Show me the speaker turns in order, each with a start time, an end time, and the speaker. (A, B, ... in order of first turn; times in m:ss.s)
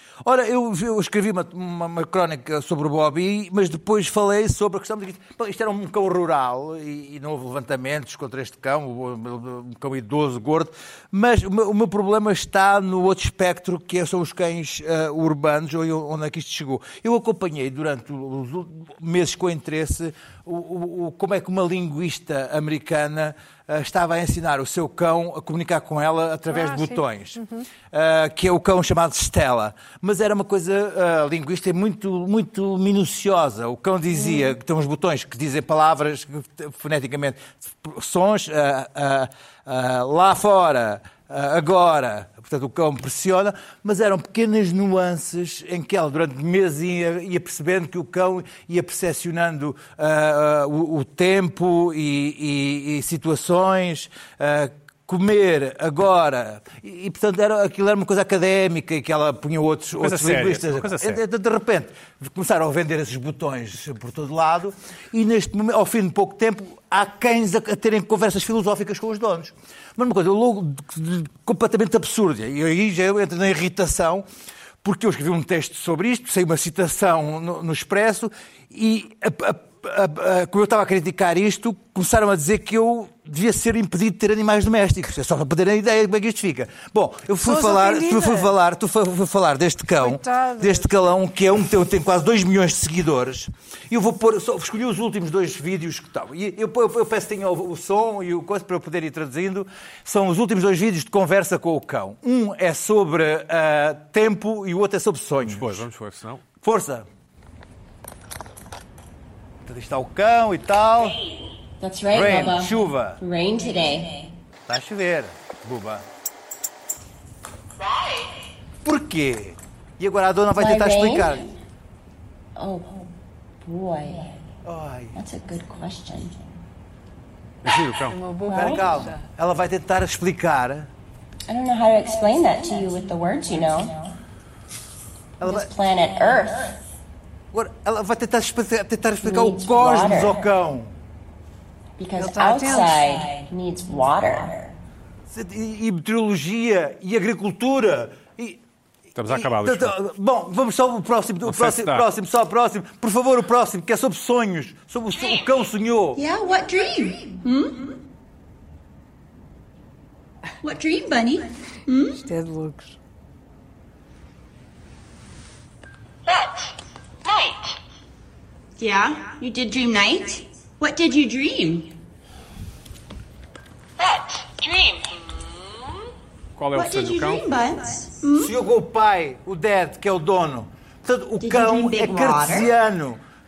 0:00.2-1:14.2 A
0:26.5-0:27.6 B
0:34.1-0:34.5 B
1:00.0-1:01.2 C
1:14.8-1:45.8 A
1:27.4-1:28.5 B
1:30.0-1:30.9 B
1:45.4-1:46.4 C
1:46.6-1:47.0 A
1:49.6-1:51.3 A
1:51.8-1:54.3 D
1:52.1-1:53.2 A
1:54.7-1:56.0 A
1:58.8-2:01.5 A
2:00.5-2:01.6 D
2:02.6-2:03.1 D
2:03.6-2:04.5 D
2:04.6-2:05.2 A
2:05.1-2:06.5 D
2:07.6-2:08.2 C
2:08.1-2:09.2 B
2:08.5-2:09.0 D
2:08.5-2:10.9 A
2:11.5-2:14.1 D
2:15.4-2:15.7 A
2:15.4-2:16.8 D
2:17.5-2:20.9 A
2:19.2-2:20.4 D
2:22.0-2:24.7 D
2:22.2-2:23.0 B
2:25.3-2:28.6 A
2:29.2-2:30.0 C
2:29.3-2:36.2 A
2:31.4-2:32.1 C
2:36.2-2:38.0 E
2:40.6-2:42.3 E
2:42.2-2:42.9 B
2:48.8-2:51.9 E
2:56.6-2:57.4 C
2:56.7-2:58.6 E
2:58.4-3:03.2 A
3:01.4-3:02.7 E